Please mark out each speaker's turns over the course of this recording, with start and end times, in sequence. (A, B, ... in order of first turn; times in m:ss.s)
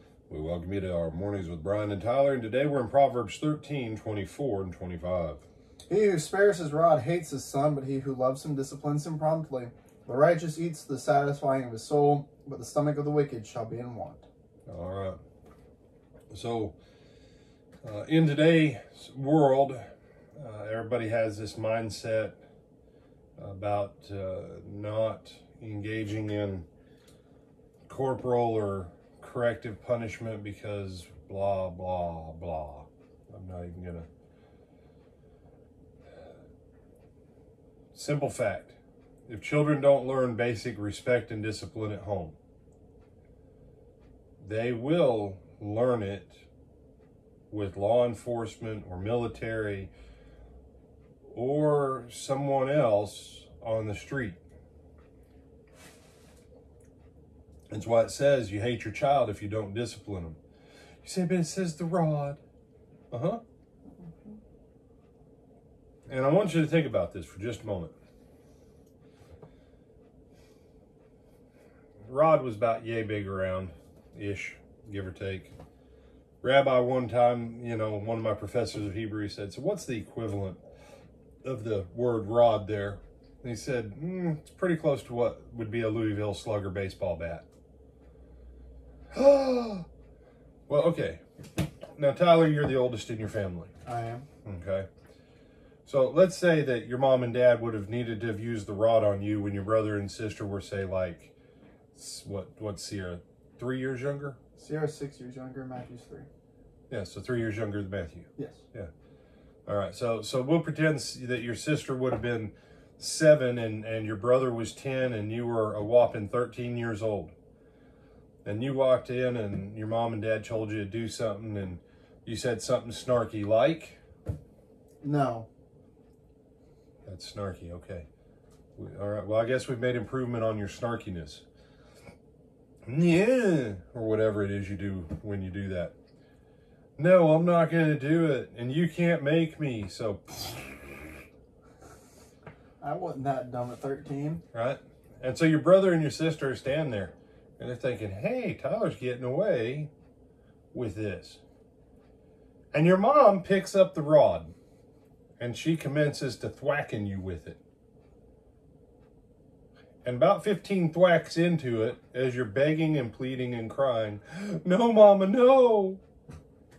0:00.3-0:05.4 A
0:05.9-0:14.2 B
0:14.7-0:15.2 A
0:16.3-0:16.7 A
0:17.8-0:22.4 A
0:23.4-0:26.6 A
0:27.9-0:34.1 A
0:37.9-0:42.4 A
0:44.4-0:46.4 A
0:47.5-0:49.9 A
0:51.3-0:54.4 A
0:57.7-1:00.4 A
1:01.0-1:02.4 A
1:03.1-1:03.4 A
1:04.0-1:04.4 B
1:06.1-1:07.9 A
1:12.0-1:15.5 A
1:16.4-1:20.6 A
1:21.4-1:27.4 A
1:29.1-1:29.8 A
1:30.7-1:31.2 A
1:32.0-1:33.7 A
1:33.8-1:34.2 B
1:34.4-1:34.9 A
1:35.8-1:41.3 A
1:41.9-1:44.4 A
1:44.6-1:46.3 B
1:46.9-1:48.9 A
1:48.4-1:48.6 B
1:49.6-1:57.3 A
1:58.4-2:04.0 A
2:05.0-2:05.5 B
2:07.0-2:08.1 A
2:08.8-2:11.4 A
2:12.8-2:15.9 A
2:17.0-2:20.6 A
2:22.8-2:24.4 B
2:24.5-2:29.9 A
2:30.7-2:31.4 A
2:32.7-2:34.5 A
2:35.4-2:37.6 A
2:40.0-2:46.0 A